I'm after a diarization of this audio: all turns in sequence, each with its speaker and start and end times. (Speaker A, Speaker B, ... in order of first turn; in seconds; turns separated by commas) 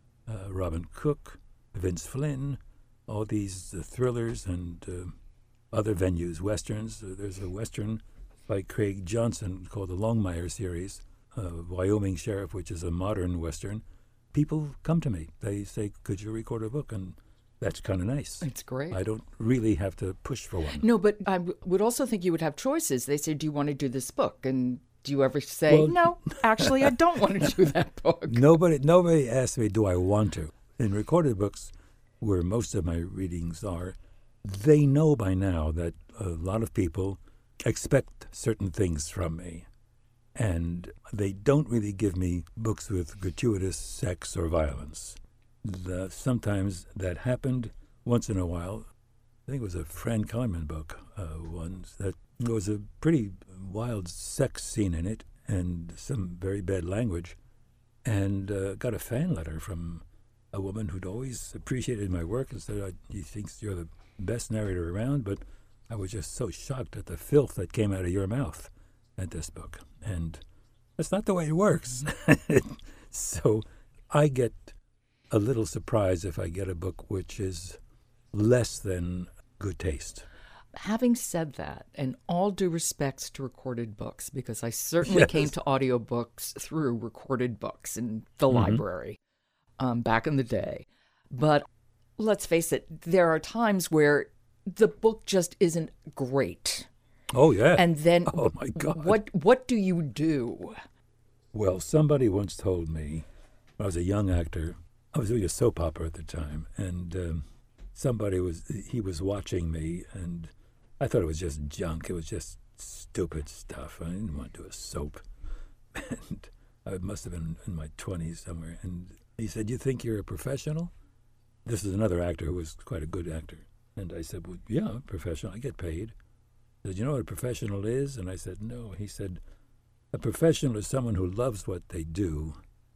Speaker A: 0.3-5.2, Speaker A: 5.7-20.9, Speaker B: 18.4-19.0, Speaker B: 20.8-28.5, Speaker A: 25.7-27.5, Speaker A: 28.3-39.7, Speaker A: 40.4-48.9, Speaker A: 49.5-57.4, Speaker A: 58.0-70.4, Speaker A: 71.0-74.8, Speaker A: 75.3-77.8, Speaker A: 78.3-80.3, Speaker B: 80.7-89.2, Speaker A: 85.0-85.5, Speaker A: 88.5-88.8, Speaker B: 89.8-91.7, Speaker B: 92.2-96.9, Speaker A: 97.3-99.2, Speaker B: 97.8-100.8, Speaker A: 101.5-103.3, Speaker A: 103.8-115.2, Speaker A: 115.9-120.9, Speaker A: 121.7-126.2, Speaker A: 126.8-129.4, Speaker A: 130.1-132.6